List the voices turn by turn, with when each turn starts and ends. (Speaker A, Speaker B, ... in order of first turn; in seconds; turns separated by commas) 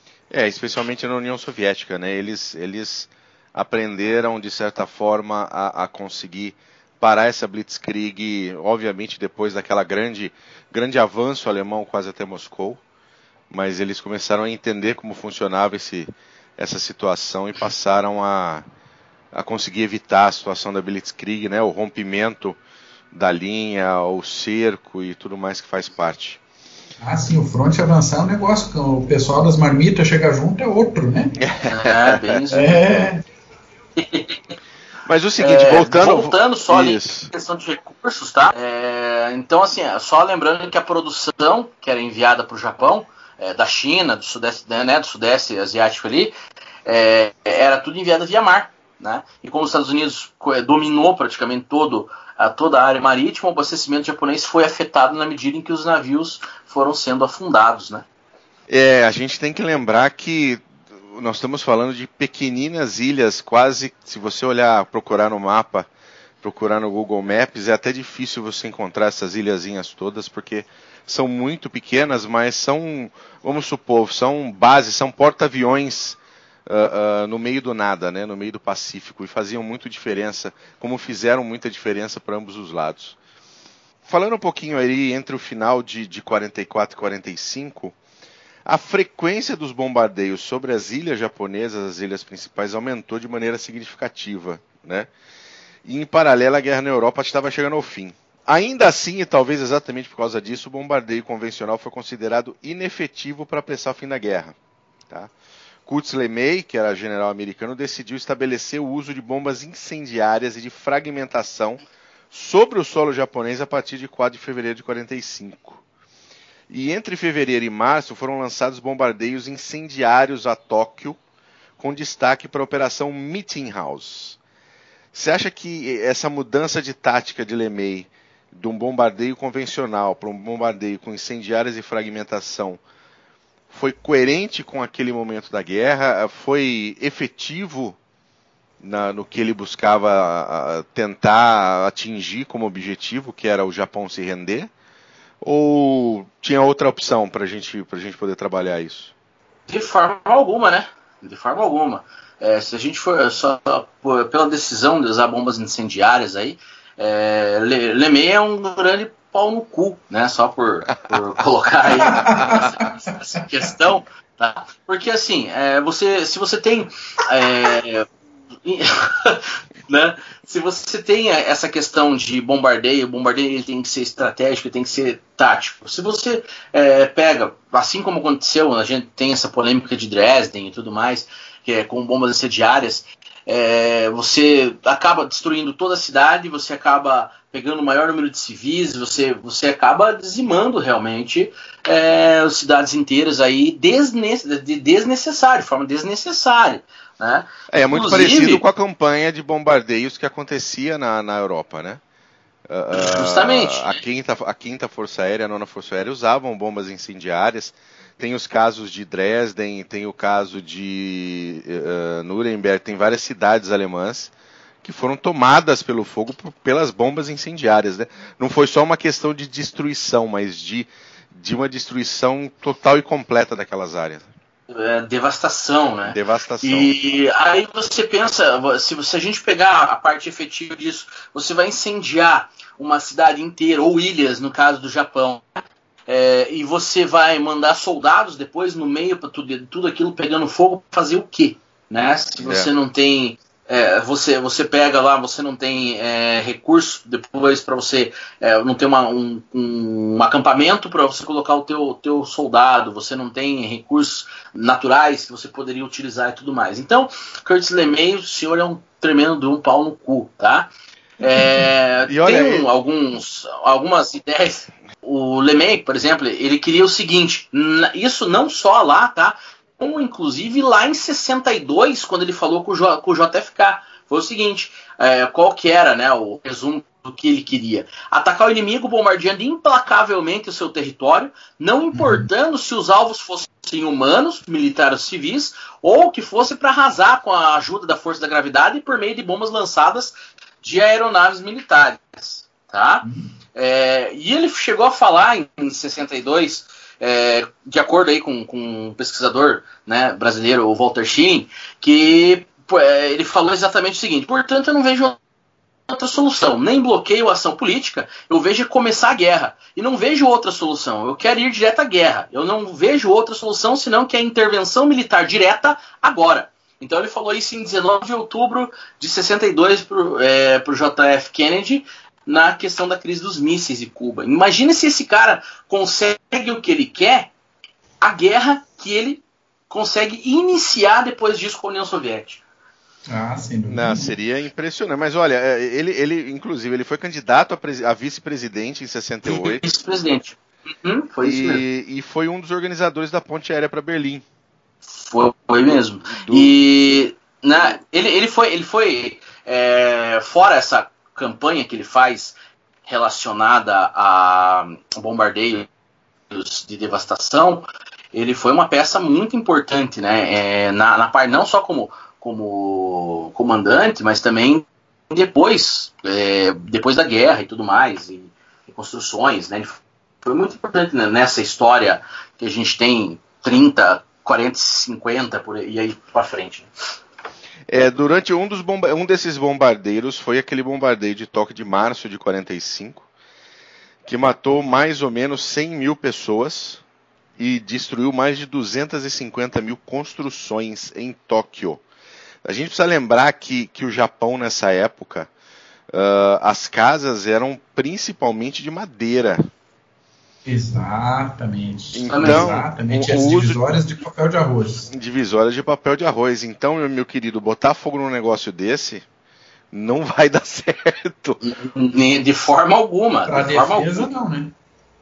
Speaker A: 0.3-12.8, Speaker A: 13.5-18.6, Speaker A: 19.3-22.6, Speaker A: 23.1-26.4, Speaker B: 27.0-31.4, Speaker A: 31.4-32.4, Speaker C: 31.7-32.8, Speaker B: 32.5-33.2, Speaker C: 34.0-34.4, Speaker A: 35.0-37.3, Speaker C: 35.4-46.3, Speaker C: 46.9-58.0, Speaker A: 58.7-65.9, Speaker A: 66.4-83.2, Speaker A: 84.0-88.0, Speaker A: 88.7-95.1, Speaker A: 95.8-104.5, Speaker A: 105.9-115.8, Speaker A: 116.7-121.2, Speaker A: 121.8-124.4, Speaker A: 125.1-132.8, Speaker A: 133.7-138.0, Speaker A: 138.8-144.7, Speaker A: 145.4-149.1, Speaker C: 149.7-168.1, Speaker B: 162.0-162.9, Speaker C: 168.6-198.6, Speaker A: 197.7-202.0, Speaker A: 202.7-224.2, Speaker C: 202.9-203.9, Speaker C: 224.7-235.4, Speaker A: 226.1-226.9, Speaker C: 236.1-260.7, Speaker A: 242.4-242.7, Speaker C: 261.2-305.2, Speaker A: 262.1-262.7, Speaker B: 281.9-282.2, Speaker C: 305.9-327.3, Speaker C: 328.0-332.4, Speaker B: 333.1-334.1, Speaker A: 333.7-339.6, Speaker C: 339.2-341.6, Speaker A: 341.2-344.2, Speaker C: 344.9-355.7, Speaker A: 345.6-346.6, Speaker C: 356.3-376.7, Speaker A: 377.7-383.1, Speaker A: 384.1-386.8, Speaker A: 387.4-391.8, Speaker A: 392.4-395.3, Speaker A: 395.9-399.4, Speaker B: 400.4-404.9, Speaker A: 401.9-403.6, Speaker C: 402.1-402.5, Speaker A: 404.9-409.0, Speaker A: 409.7-411.4, Speaker C: 411.4-414.1, Speaker B: 413.2-414.5